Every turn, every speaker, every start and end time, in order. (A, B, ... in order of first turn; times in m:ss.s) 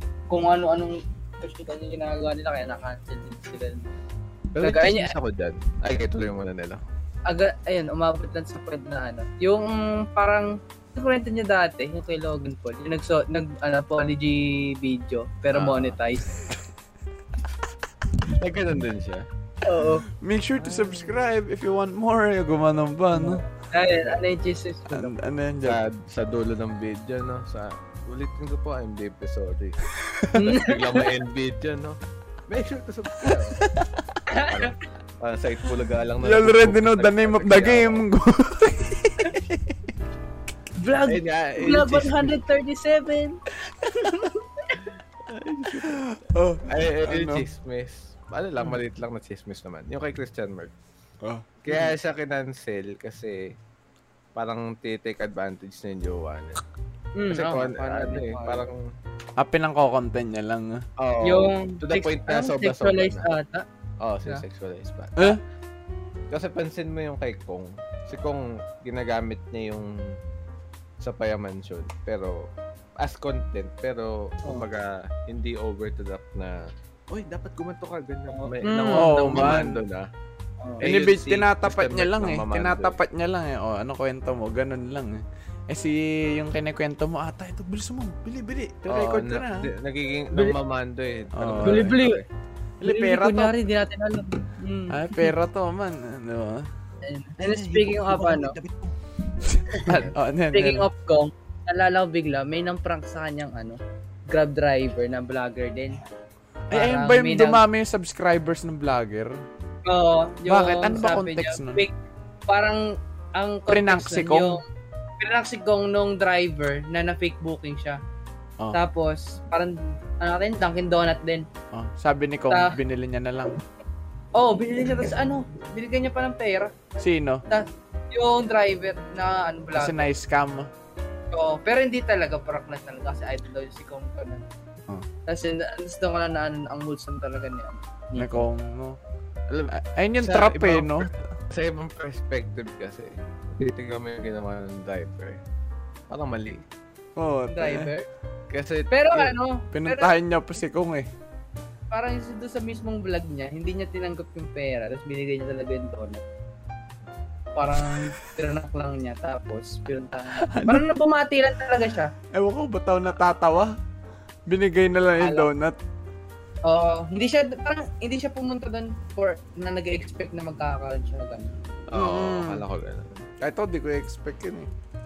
0:00.3-0:03.9 A
0:04.5-0:06.8 B
0:04.6-0:05.2 A
0:07.3-0:16.5 A
0:15.5-0:16.0 B
0:18.3-0:19.3 B
0:19.6-0:20.1 A
0:19.8-0:23.4 C
0:23.1-0:25.2 A
0:24.9-0:25.8 C
0:25.6-0:29.8 B
0:30.0-0:30.5 C
0:30.4-0:31.1 A
0:30.4-0:33.6 B
0:33.6-0:34.0 C
0:34.3-0:34.8 A
0:34.5-0:38.1 B
0:36.2-0:39.8 C
0:40.8-0:43.4 A
0:41.0-0:42.4 B
0:43.8-0:44.2 C
0:43.9-0:44.8 A
0:45.3-0:46.0 B
0:45.8-0:47.5 C
0:46.7-0:50.7 B
0:51.2-0:51.5 C
0:51.6-0:53.6 B
0:54.4-0:56.6 B
0:57.2-0:58.6 A
0:57.3-0:58.8 B
0:59.4-1:00.8 C
1:01.0-1:03.3 B
1:01.2-1:03.7 A
1:04.0-1:05.4 B
1:06.3-1:10.2 B
1:11.0-1:20.1 B
1:18.3-1:19.7 A
1:18.9-1:19.8 C
1:20.8-1:23.0 B
1:20.8-1:29.7 C
1:28.9-1:32.3 B
1:31.3-1:32.0 C
1:31.6-1:32.2 A
1:32.8-1:33.5 C
1:32.8-1:35.3 A
1:34.9-1:36.7 C
1:37.0-1:38.6 A
1:37.4-1:39.0 B
1:39.5-1:40.9 C
1:39.7-1:46.0 A
1:39.9-1:40.2 B
1:46.7-1:49.4 C
1:46.7-1:47.6 A
1:49.8-1:51.9 A
1:50.5-1:51.8 C
1:52.5-1:54.6 A
1:53.7-1:54.6 C
1:55.2-1:58.0 A
1:58.7-2:01.5 A
2:01.7-2:03.6 C
2:02.5-2:02.8 A
2:04.4-2:10.1 A
2:07.0-2:07.4 C
2:09.8-2:10.7 C
2:11.3-2:14.5 A
2:15.3-2:18.4 A
2:18.2-2:19.0 C
2:19.5-2:25.4 B
2:19.7-2:21.3 C
2:26.1-2:26.7 B
2:27.2-2:27.9 C
2:27.5-2:28.1 A
2:28.5-2:29.4 B
2:28.9-2:30.1 A
2:29.7-2:31.1 C
2:31.9-2:36.2 A
2:37.6-2:42.1 A
2:40.4-2:40.8 C
2:42.3-2:43.8 C
2:44.5-2:45.8 C
2:45.2-2:45.5 A
2:46.6-2:51.5 A
2:51.9-2:53.2 B
2:51.9-2:52.6 C
2:53.4-2:54.7 C